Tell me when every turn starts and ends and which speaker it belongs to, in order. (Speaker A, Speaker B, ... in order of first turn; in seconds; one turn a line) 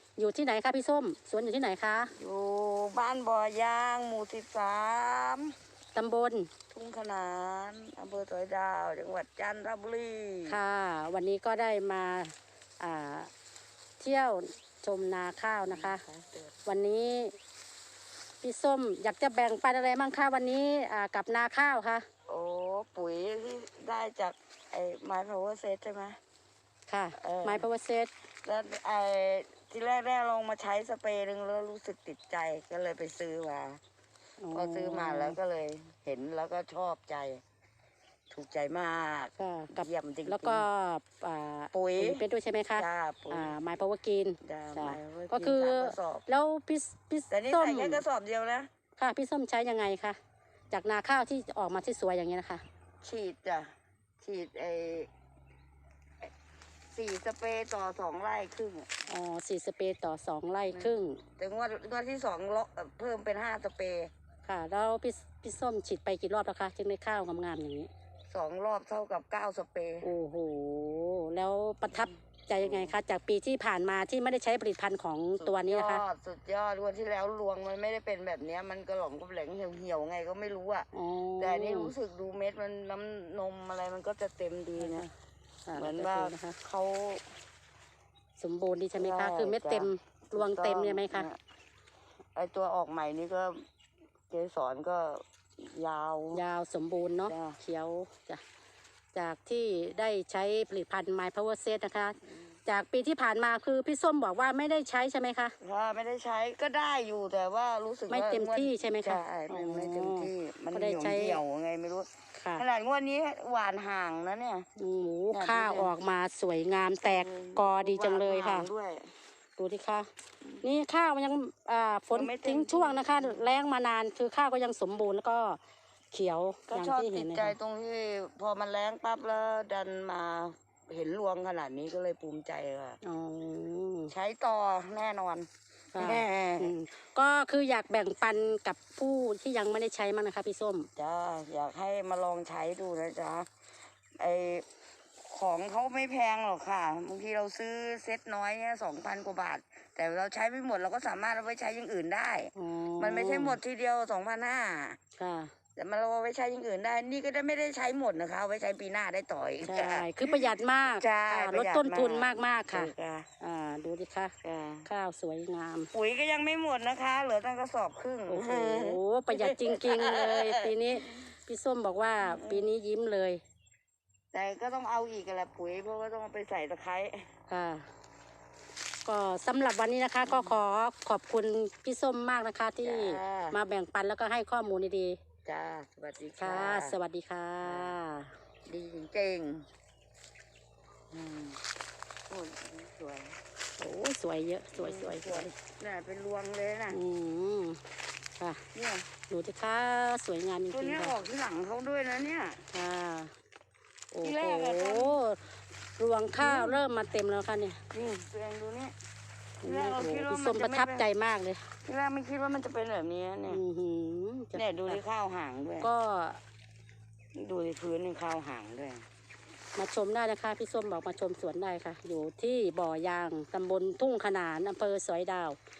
Speaker A: 0.2-2.1
Speaker B: 2.1-5.5
Speaker A: 5.9-6.5
Speaker B: 6.7-10.6
Speaker A: 10.5-13.3
Speaker A: 14.0-16.0
Speaker B: 15.7-16.6
Speaker A: 16.6-17.3
Speaker A: 18.4-22.1
Speaker B: 22.3-26.2
Speaker A: 26.9-28.1
Speaker B: 27.2-27.6
Speaker B: 28.4-33.8
Speaker A: 34.4-35.4
Speaker B: 34.5-37.4
Speaker B: 38.3-40.6
Speaker A: 39.4-48.0
Speaker B: 41.7-42.2
Speaker B: 42.8-43.5
Speaker B: 44.4-46.3
Speaker B: 47.3-48.7
Speaker A: 49.0-50.2
Speaker A: 50.7-52.6
Speaker B: 53.0-55.1
Speaker B: 56.9-59.0
Speaker A: 59.1-61.2
Speaker B: 60.7-64.1
Speaker A: 64.4-67.9
Speaker B: 68.3-70.1
Speaker A: 70.0-76.0
Speaker B: 71.9-72.9
Speaker B: 75.4-80.9
Speaker A: 80.9-81.9
Speaker B: 81.4-85.1
Speaker A: 84.8-85.1
Speaker A: 85.7-86.6
Speaker B: 85.7-87.3
Speaker A: 88.4-91.3
Speaker B: 89.0-91.4
Speaker B: 92.3-93.6
Speaker B: 94.3-96.4
Speaker A: 96.3-98.4
Speaker B: 97.3-97.6
Speaker A: 99.1-105.5
Speaker B: 105.6-114.7
Speaker A: 108.1-111.4
Speaker A: 112.4-112.6
Speaker A: 114.8-118.7
Speaker B: 115.3-115.9
Speaker B: 117.0-119.1
Speaker A: 119.6-120.1
Speaker A: 120.6-125.6
Speaker B: 122.1-123.5
Speaker A: 126.1-127.5
Speaker B: 126.7-133.0
Speaker A: 133.0-134.1
Speaker B: 134.1-136.7
Speaker A: 135.9-140.9
Speaker B: 140.9-143.5
Speaker B: 144.2-144.7
Speaker B: 145.2-155.0
Speaker A: 152.5-153.6
Speaker A: 155.2-155.5
Speaker B: 155.8-163.3
Speaker A: 159.6-165.9
Speaker B: 164.4-164.9
Speaker B: 165.9-171.3
Speaker A: 168.3-173.4
Speaker B: 172.2-172.8
Speaker B: 174.3-177.3
Speaker A: 177.5-177.9
Speaker A: 179.0-185.2
Speaker B: 180.2-180.6
Speaker B: 182.8-183.6
Speaker B: 185.4-187.0
Speaker A: 186.4-188.3
Speaker B: 187.6-188.0
Speaker B: 188.7-189.7
Speaker B: 191.1-191.6
Speaker B: 192.3-193.4
Speaker A: 193.8-195.5
Speaker B: 194.7-197.0
Speaker A: 196.9-197.8
Speaker A: 198.4-198.6
Speaker B: 198.7-199.1
Speaker A: 199.3-201.2
Speaker B: 200.7-202.6
Speaker A: 202.7-203.3
Speaker A: 204.1-207.8
Speaker B: 204.2-205.2
Speaker B: 206.4-206.8
Speaker B: 207.9-208.9
Speaker B: 209.6-211.1
Speaker A: 209.6-211.7
Speaker B: 211.8-213.6
Speaker A: 213.5-215.0
Speaker B: 214.5-215.9
Speaker A: 215.8-216.4
Speaker B: 217.3-219.1
Speaker A: 219.8-225.6